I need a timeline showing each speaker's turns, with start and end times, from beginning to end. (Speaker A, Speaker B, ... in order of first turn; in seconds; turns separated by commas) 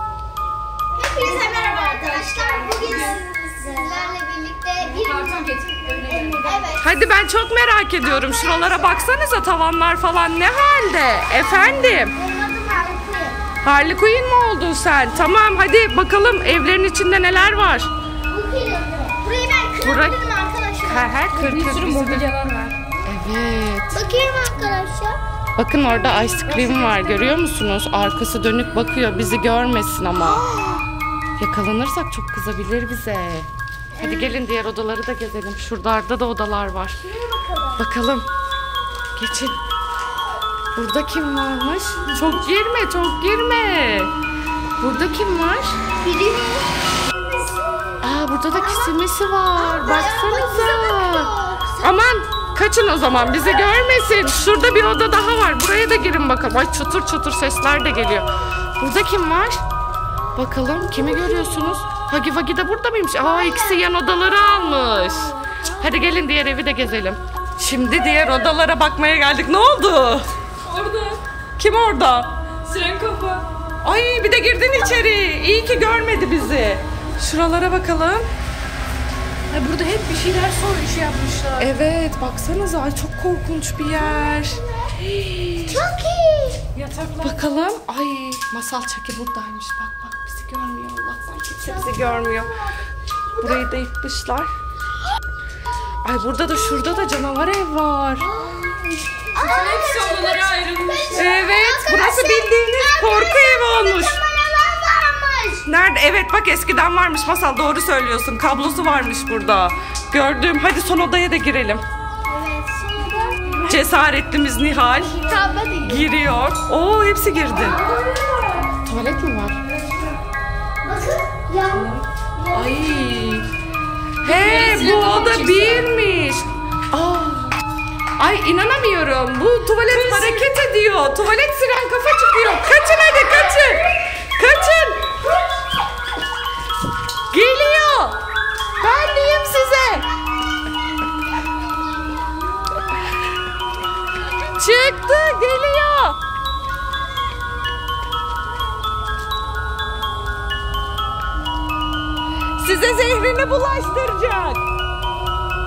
Speaker A: 0.9-6.9, Speaker B: 1.2-3.2, Speaker B: 4.8-6.7, Speaker C: 6.8-12.1, Speaker A: 8.0-9.1, Speaker A: 12.1-13.4, Speaker C: 13.6-17.9, Speaker A: 18.3-21.2, Speaker C: 19.8-20.2, Speaker C: 20.8-22.3, Speaker B: 21.3-22.8, Speaker C: 23.0-24.0, Speaker A: 23.9-25.2, Speaker C: 25.6-30.4, Speaker B: 26.5-27.3, Speaker A: 30.4-30.8, Speaker C: 31.4-37.1, Speaker A: 34.0-34.3, Speaker A: 37.2-37.8, Speaker C: 37.8-38.3, Speaker C: 39.1-39.6, Speaker C: 40.7-44.1, Speaker C: 44.8-45.8, Speaker A: 46.0-49.0, Speaker C: 48.0-59.6, Speaker A: 49.5-52.0, Speaker C: 60.4-70.2, Speaker B: 70.6-71.2, Speaker C: 71.6-72.3, Speaker B: 72.6-73.5, Speaker C: 73.8-78.2, Speaker B: 79.5-81.7, Speaker C: 81.6-85.8, Speaker A: 84.2-84.5, Speaker A: 85.7-86.6, Speaker B: 86.8-87.3, Speaker C: 87.2-92.5, Speaker A: 91.6-92.6, Speaker C: 93.4-94.5, Speaker C: 96.0-98.3, Speaker A: 98.2-105.7, Speaker B: 99.4-101.3, Speaker C: 101.1-104.2, Speaker C: 105.7-111.8, Speaker A: 112.2-113.6, Speaker C: 113.6-115.3, Speaker A: 115.0-116.0, Speaker C: 115.8-117.8, Speaker A: 117.8-118.2, Speaker C: 118.8-119.6, Speaker A: 120.8-122.8, Speaker C: 121.7-123.5, Speaker C: 124.2-127.5, Speaker B: 124.2-125.9, Speaker C: 128.2-135.1, Speaker B: 130.1-130.4, Speaker C: 137.3-138.2, Speaker C: 138.8-140.1, Speaker C: 144.4-146.2, Speaker C: 152.6-154.6